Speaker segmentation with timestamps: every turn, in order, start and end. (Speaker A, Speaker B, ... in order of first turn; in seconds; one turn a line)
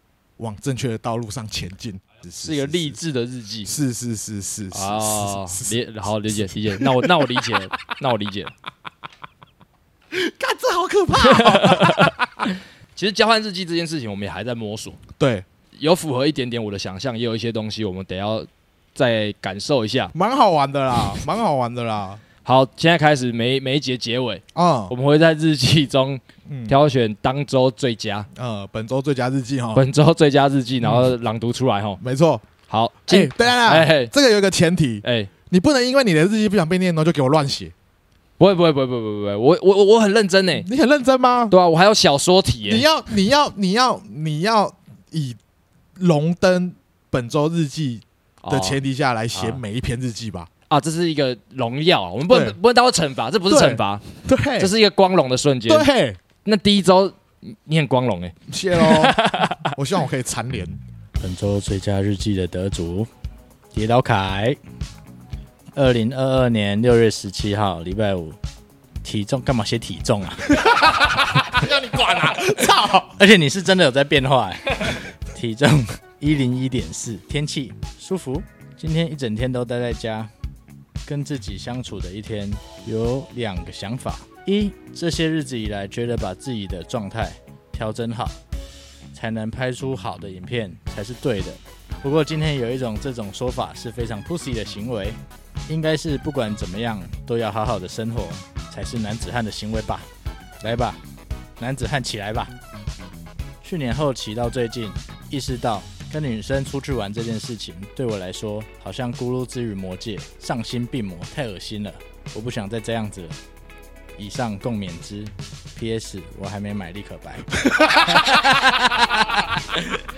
Speaker A: 0.4-3.0
Speaker B: 2.4-3.7
Speaker A: 3.6-7.4
Speaker B: 4.7-8.5
Speaker A: 10.1-12.4
Speaker B: 11.2-12.2
Speaker B: 12.9-15.0
Speaker A: 15.2-15.4
Speaker B: 15.7-20.1
Speaker A: 20.1-22.2
Speaker B: 22.4-28.3
Speaker A: 24.5-24.9
Speaker A: 26.5-26.8
Speaker A: 28.3-29.9
Speaker B: 29.7-32.0
Speaker A: 30.8-31.1
Speaker A: 32.0-32.4
Speaker B: 32.7-34.1
Speaker A: 33.1-37.7
Speaker B: 35.0-35.3
Speaker B: 38.4-40.7
Speaker A: 40.5-41.5
Speaker B: 41.5-42.9
Speaker A: 42.6-45.4
Speaker A: 46.0-50.5
Speaker B: 48.4-48.8
Speaker B: 49.3-49.6
Speaker B: 50.7-54.0
Speaker A: 52.3-52.6
Speaker A: 53.5-54.7
Speaker B: 54.6-55.9
Speaker A: 55.7-56.2
Speaker B: 56.4-59.7
Speaker A: 58.5-60.8
Speaker C: 61.2-63.1
Speaker C: 63.7-64.6
Speaker C: 65.7-68.4
Speaker C: 69.0-70.7
Speaker A: 70.5-73.2
Speaker C: 73.2-80.3
Speaker C: 81.0-88.3
Speaker C: 89.1-100.1
Speaker C: 100.6-101.0
Speaker C: 101.6-102.5
Speaker C: 103.6-113.3
Speaker C: 114.2-118.5
Speaker A: 117.6-119.8